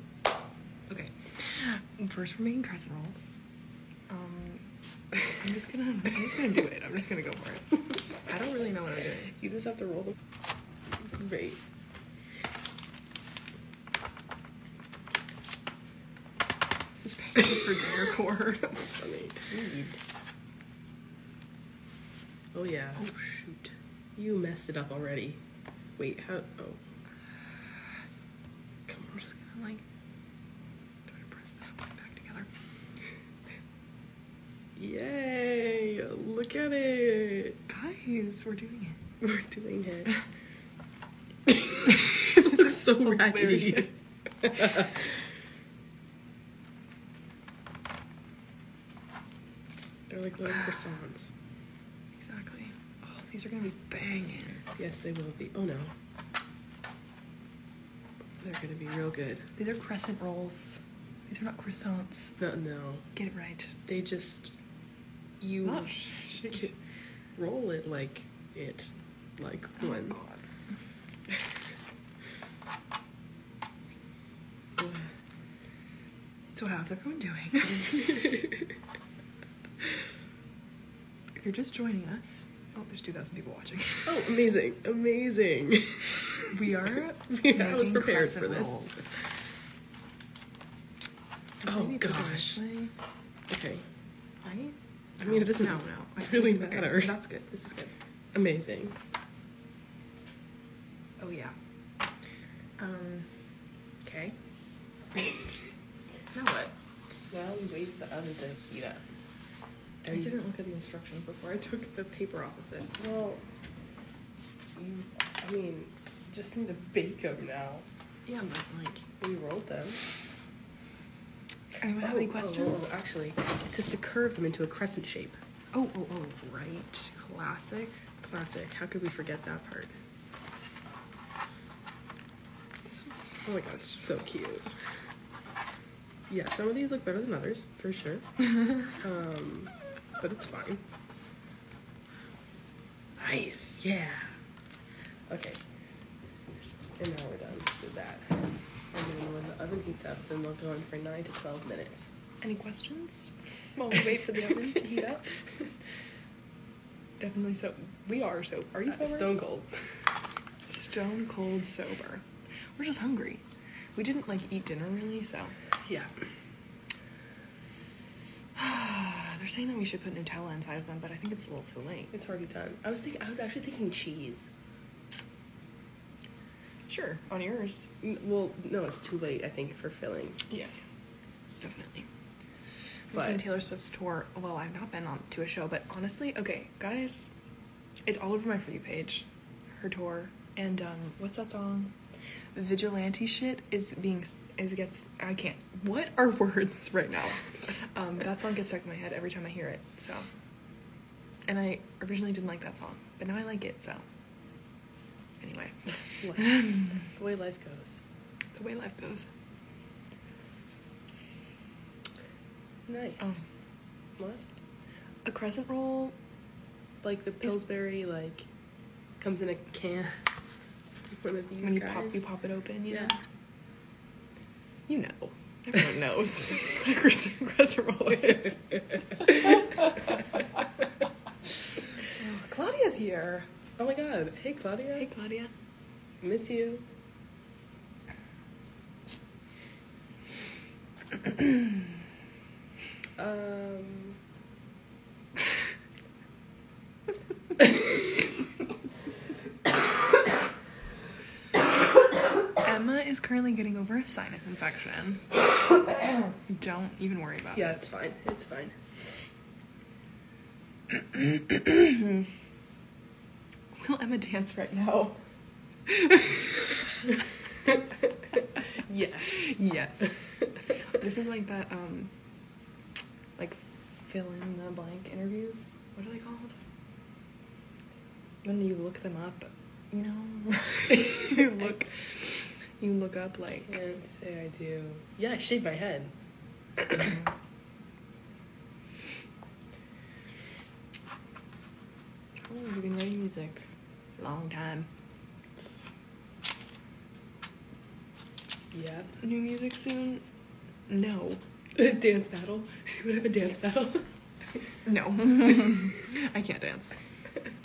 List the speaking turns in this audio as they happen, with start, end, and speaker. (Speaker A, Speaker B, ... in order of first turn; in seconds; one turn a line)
Speaker A: 0.9-3.3
Speaker A: 4.1-4.7
Speaker A: 5.3-9.3
Speaker B: 9.4-10.2
Speaker B: 11.0-11.6
Speaker A: 16.9-19.2
Speaker B: 19.0-20.0
Speaker B: 22.5-23.1
Speaker A: 23.0-23.7
Speaker B: 24.2-25.4
Speaker B: 26.0-26.8
Speaker B: 28.9-29.2
Speaker A: 29.1-29.8
Speaker A: 31.1-32.5
Speaker B: 34.8-37.6
Speaker A: 37.7-39.0
Speaker B: 39.2-40.1
Speaker B: 41.5-45.2
Speaker A: 41.9-43.9
Speaker B: 50.1-51.3
Speaker A: 52.2-54.6
Speaker B: 54.8-55.9
Speaker B: 58.4-59.5
Speaker A: 59.6-62.4
Speaker B: 62.4-63.1
Speaker A: 63.1-63.9
Speaker B: 63.9-64.5
Speaker B: 65.4-66.7
Speaker A: 65.6-66.7
Speaker B: 67.3-70.2
Speaker A: 69.8-70.4
Speaker B: 74.8-75.1
Speaker A: 76.5-78.2
Speaker B: 77.8-78.6
Speaker A: 81.3-84.2
Speaker B: 84.0-86.4
Speaker A: 86.5-89.2
Speaker B: 87.3-89.1
Speaker A: 91.6-92.9
Speaker B: 91.6-92.6
Speaker B: 93.5-93.8
Speaker A: 94.4-97.9
Speaker B: 95.2-97.2
Speaker B: 98.3-99.0
Speaker A: 101.2-101.5
Speaker A: 102.8-103.5
Speaker A: 104.0-104.3
Speaker A: 106.3-106.7
Speaker B: 107.3-109.0
Speaker B: 110.0-110.3
Speaker A: 110.0-113.1
Speaker B: 113.0-113.4
Speaker B: 114.7-117.8
Speaker A: 118.2-119.1
Speaker B: 119.2-120.0
Speaker A: 121.8-123.0
Speaker B: 122.0-125.4
Speaker A: 125.7-128.0
Speaker B: 128.2-130.0
Speaker A: 132.9-134.2
Speaker B: 133.4-134.8
Speaker B: 136.3-138.2
Speaker B: 138.9-140.8
Speaker A: 143.2-143.9
Speaker B: 143.2-144.3
Speaker B: 145.3-145.6
Speaker B: 147.0-148.4
Speaker B: 148.9-152.1
Speaker A: 152.4-155.3
Speaker A: 157.2-159.4
Speaker B: 158.9-159.7
Speaker A: 160.7-162.2
Speaker A: 162.8-163.4
Speaker A: 164.0-165.6
Speaker B: 165.8-166.1
Speaker A: 168.6-172.1
Speaker B: 172.1-174.5
Speaker A: 176.9-177.9
Speaker B: 178.0-180.5
Speaker A: 181.6-182.1
Speaker A: 183.1-187.3
Speaker B: 183.1-183.4
Speaker A: 188.1-191.9
Speaker A: 192.6-200.3
Speaker A: 201.5-204.1
Speaker A: 205.4-205.8
Speaker B: 206.2-208.0
Speaker A: 206.4-206.9
Speaker A: 208.6-209.3
Speaker B: 212.9-213.4
Speaker B: 214.2-214.5
Speaker A: 215.2-216.2
Speaker B: 217.0-218.5
Speaker B: 219.2-220.3
Speaker B: 221.1-222.3
Speaker A: 221.6-223.2
Speaker B: 222.9-223.2
Speaker A: 224.9-230.0
Speaker B: 228.3-229.4
Speaker A: 232.1-233.5
Speaker B: 233.8-235.1
Speaker A: 235.0-235.5
Speaker B: 236.2-236.8
Speaker B: 243.2-244.2
Speaker A: 252.6-255.3
Speaker A: 256.3-257.8
Speaker B: 257.5-258.8
Speaker A: 261.1-262.2
Speaker A: 263.8-265.2
Speaker A: 265.9-266.8
Speaker B: 268.9-269.4
Speaker A: 268.9-272.1
Speaker A: 273.4-276.6
Speaker A: 278.4-283.8
Speaker B: 283.7-286.1
Speaker A: 292.4-293.7
Speaker A: 294.2-294.9
Speaker B: 298.7-299.1
Speaker A: 299.2-300.2
Speaker A: 300.9-301.4
Speaker B: 301.8-304.1
Speaker A: 304.8-307.0